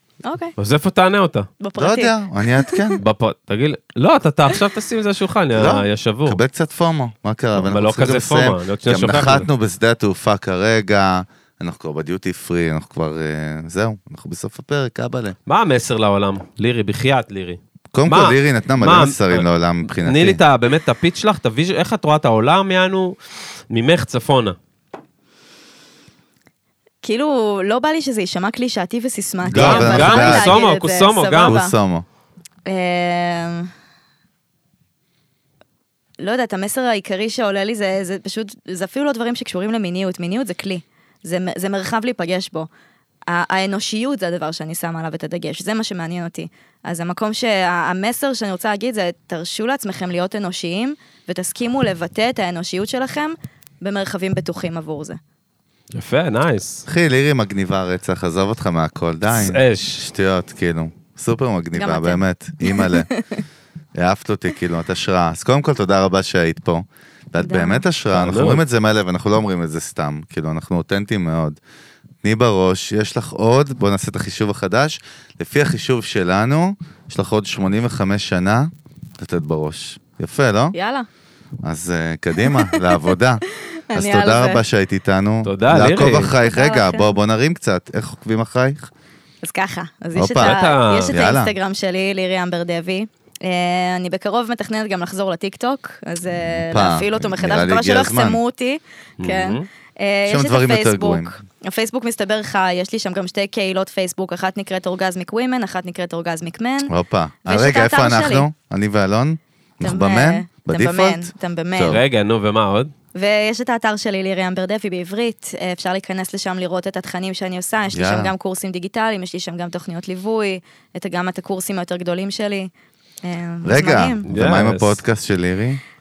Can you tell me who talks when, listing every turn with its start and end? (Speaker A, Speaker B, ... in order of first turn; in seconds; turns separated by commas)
Speaker A: 0.2-0.5, Speaker B: 0.6-1.5, Speaker A: 1.6-3.0, Speaker C: 1.8-3.0, Speaker B: 3.0-6.4, Speaker C: 5.5-15.4, Speaker B: 7.6-9.5, Speaker B: 15.5-23.2, Speaker C: 17.9-20.4, Speaker B: 23.7-24.6, Speaker A: 27.0-31.8, Speaker C: 29.4-30.6, Speaker B: 29.5-31.6, Speaker C: 31.4-32.0, Speaker A: 32.7-33.7, Speaker A: 36.2-42.7, Speaker A: 43.3-55.2, Speaker B: 55.9-56.9, Speaker C: 56.9-63.1, Speaker B: 59.3-60.0, Speaker A: 61.8-63.4, Speaker C: 64.0-71.6, Speaker A: 67.4-67.8, Speaker B: 68.1-68.6, Speaker C: 72.2-80.8, Speaker A: 80.7-81.1, Speaker C: 81.6-83.4, Speaker A: 82.4-84.6, Speaker C: 83.9-88.9, Speaker B: 85.4-86.3, Speaker A: 86.4-87.1, Speaker A: 89.4-106.9, Speaker C: 90.2-90.6, Speaker B: 90.4-91.2, Speaker C: 91.1-91.5, Speaker C: 96.6-98.4, Speaker B: 99.2-99.7, Speaker C: 100.3-101.3, Speaker C: 106.9-112.0, Speaker A: 107.4-108.5, Speaker A: 109.8-112.0, Speaker B: 111.8-112.9, Speaker A: 113.2-122.7, Speaker C: 117.9-118.3, Speaker A: 123.2-124.2, Speaker C: 123.6-125.8, Speaker B: 124.3-125.0